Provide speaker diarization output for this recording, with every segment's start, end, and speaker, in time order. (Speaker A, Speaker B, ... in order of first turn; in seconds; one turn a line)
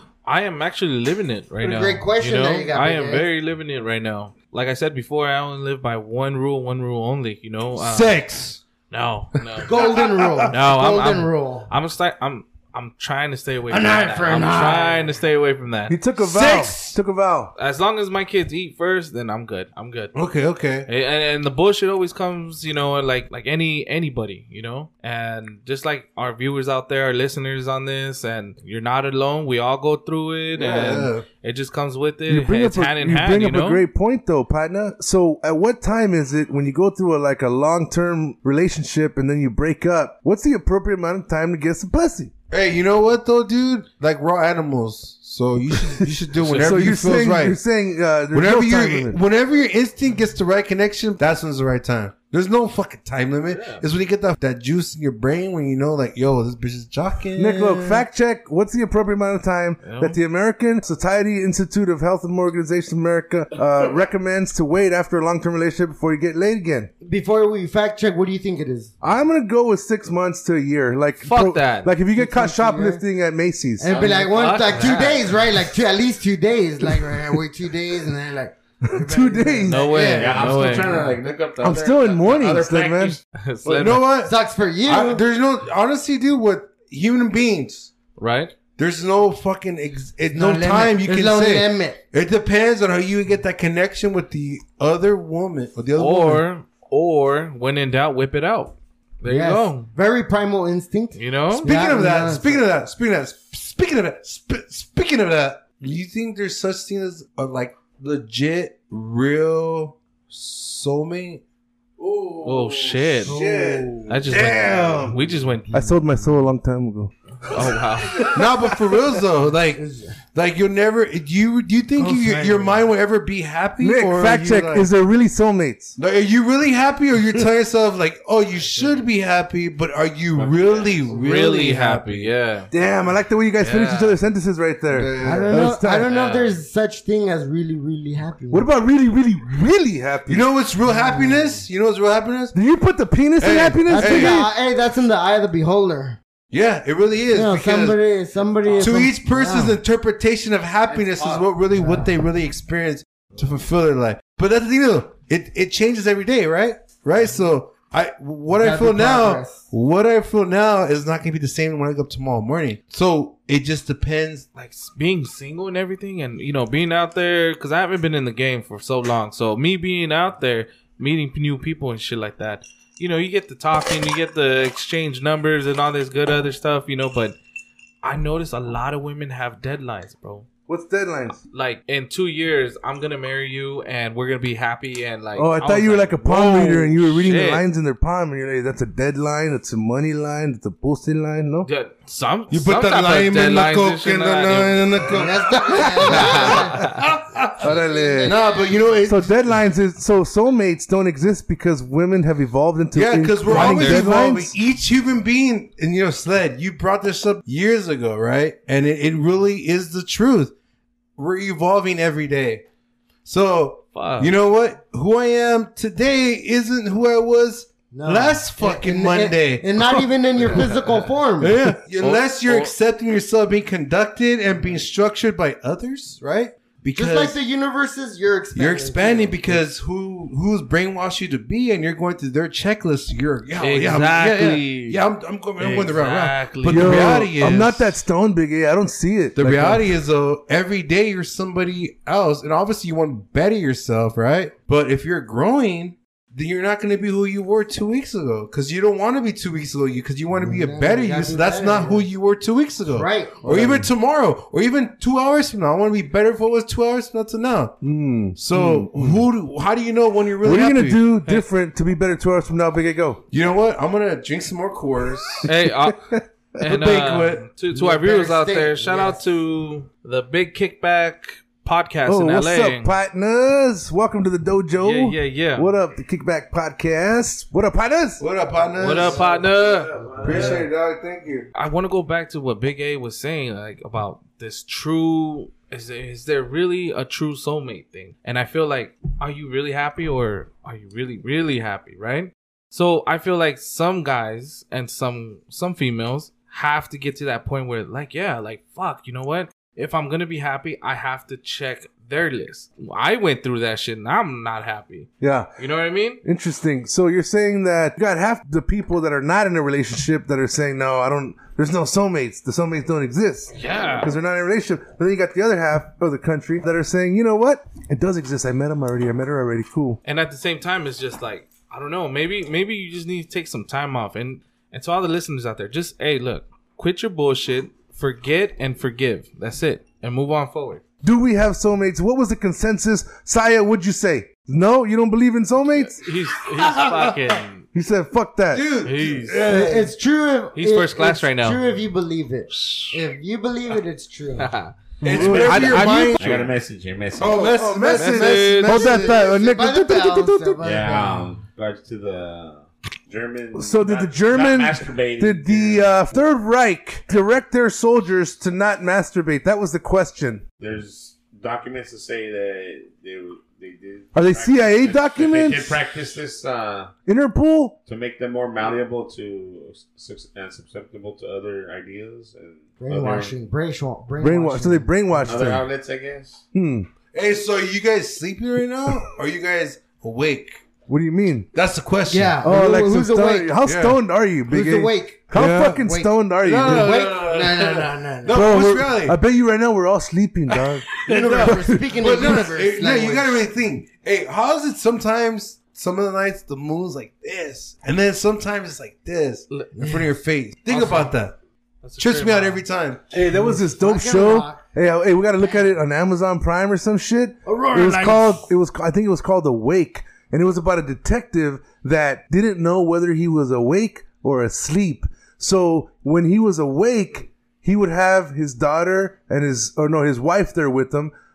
Speaker A: 0.2-8.2
Speaker B: 1.6-3.3
Speaker C: 7.8-8.6
Speaker A: 8.9-9.7
Speaker B: 9.6-11.7
Speaker C: 9.7-10.5
Speaker A: 10.5-16.0
Speaker B: 13.7-15.1
Speaker D: 15.9-17.5
Speaker C: 16.2-17.0
Speaker A: 17.6-20.1
Speaker C: 20.1-20.9
Speaker A: 20.9-33.9
Speaker C: 30.5-31.2
Speaker D: 32.3-42.3
Speaker C: 42.5-47.6
Speaker D: 45.7-49.2
Speaker A: 46.4-46.8
Speaker C: 48.3-58.0
Speaker D: 57.4-66.9
Speaker A: 59.8-60.2
Speaker B: 67.0-68.9
Speaker D: 69.0-73.9
Speaker A: 71.2-71.9
Speaker B: 72.2-73.0
Speaker B: 73.8-81.2
Speaker A: 73.9-75.3
Speaker E: 74.0-74.2
Speaker D: 78.8-80.0
Speaker A: 79.7-81.0
Speaker E: 80.1-83.2
Speaker D: 81.6-83.2
Speaker A: 83.3-84.1
Speaker C: 83.7-87.9
Speaker B: 84.2-85.2
Speaker A: 88.2-88.5
Speaker C: 88.8-96.4
Speaker B: 90.3-92.0
Speaker A: 96.0-99.9
Speaker B: 99.3-102.6
Speaker A: 101.2-101.7
Speaker C: 101.6-111.4
Speaker D: 112.0-119.0
Speaker A: 112.4-113.3
Speaker B: 113.2-114.2
Speaker A: 114.1-115.9
Speaker C: 114.3-115.1
Speaker B: 115.7-116.3
Speaker A: 117.5-118.4
Speaker C: 118.3-119.8
Speaker B: 119.8-120.2
Speaker C: 120.3-124.9
Speaker B: 122.0-122.8
Speaker D: 122.1-122.4
Speaker D: 123.8-126.0
Speaker C: 126.0-132.3
Speaker A: 128.7-129.1
Speaker E: 130.3-131.2
Speaker A: 131.1-132.7
Speaker D: 132.7-136.1
Speaker A: 133.6-134.2
Speaker C: 134.9-135.6
Speaker B: 135.2-138.7
Speaker A: 136.1-136.6
Speaker D: 138.5-140.5
Speaker C: 140.3-142.6
Speaker B: 140.9-141.6
Speaker D: 142.5-144.5
Speaker C: 143.4-144.4
Speaker B: 143.9-146.2
Speaker C: 146.5-148.0
Speaker B: 147.3-149.8
Speaker C: 148.8-164.5
Speaker E: 150.9-151.5
Speaker B: 151.8-152.1
Speaker B: 158.6-159.6
Speaker A: 164.6-177.4
Speaker A: 178.0-180.5
Speaker D: 180.7-181.4
Speaker A: 181.5-187.6
Speaker D: 185.4-191.7
Speaker A: 191.7-195.0
Speaker C: 192.5-197.6
Speaker B: 195.1-196.8
Speaker A: 196.0-197.0
Speaker D: 197.6-198.4
Speaker B: 197.6-198.8
Speaker C: 198.2-199.4
Speaker D: 199.1-204.6
Speaker C: 202.9-210.5
Speaker A: 203.5-204.1
Speaker C: 211.2-212.6
Speaker C: 213.2-220.7
Speaker A: 213.9-214.3
Speaker B: 217.9-221.6
Speaker C: 221.4-227.4
Speaker A: 222.0-222.7
Speaker B: 226.9-229.6
Speaker C: 228.6-237.9
Speaker A: 233.6-235.0
Speaker A: 235.6-237.2
Speaker D: 236.7-239.9
Speaker C: 239.4-257.8
Speaker B: 250.4-252.1
Speaker B: 252.9-253.5
Speaker D: 253.5-253.9
Speaker D: 257.8-259.3
Speaker C: 258.4-261.0
Speaker D: 260.4-263.2
Speaker C: 263.3-265.5
Speaker A: 265.4-266.1
Speaker D: 265.6-266.2
Speaker A: 266.6-272.9
Speaker C: 266.6-267.5
Speaker B: 267.7-269.2
Speaker D: 272.1-278.2
Speaker A: 274.8-275.7
Speaker C: 278.2-279.3
Speaker A: 278.8-280.6
Speaker D: 279.9-280.6
Speaker C: 280.2-281.5
Speaker A: 281.6-306.2
Speaker D: 305.2-305.5
Speaker D: 306.2-320.0
Speaker A: 313.6-314.1
Speaker A: 320.1-330.8
Speaker D: 331.0-336.1
Speaker A: 335.9-337.7
Speaker C: 336.6-337.1
Speaker D: 337.7-338.7
Speaker C: 338.5-339.9
Speaker A: 338.8-339.6
Speaker B: 339.5-344.5
Speaker A: 340.6-341.6
Speaker A: 342.5-342.9
Speaker A: 344.4-346.5
Speaker C: 345.0-346.4
Speaker D: 345.0-346.0
Speaker E: 346.2-347.5
Speaker C: 347.2-349.2
Speaker D: 347.4-350.6
Speaker A: 347.9-348.9
Speaker B: 348.8-351.3
Speaker E: 350.6-356.3
Speaker D: 353.5-360.4
Speaker E: 360.6-366.9
Speaker D: 364.1-365.8
Speaker D: 367.1-367.8
Speaker E: 367.9-373.4
Speaker B: 372.8-374.9
Speaker D: 374.2-375.7
Speaker E: 375.2-376.4
Speaker D: 376.5-376.9
Speaker C: 377.1-380.6
Speaker D: 380.9-381.5
Speaker C: 381.5-382.4
Speaker B: 382.1-383.6
Speaker D: 382.4-386.9
Speaker C: 383.6-384.0
Speaker B: 384.5-388.5
Speaker C: 385.3-385.8
Speaker C: 386.4-389.2
Speaker D: 388.3-391.9
Speaker C: 391.0-401.4
Speaker B: 391.0-393.4
Speaker B: 399.8-400.0
Speaker A: 400.7-401.1
Speaker A: 401.8-402.6
Speaker C: 402.0-403.0
Speaker D: 403.1-421.1
Speaker B: 403.3-404.6
Speaker B: 407.5-408.5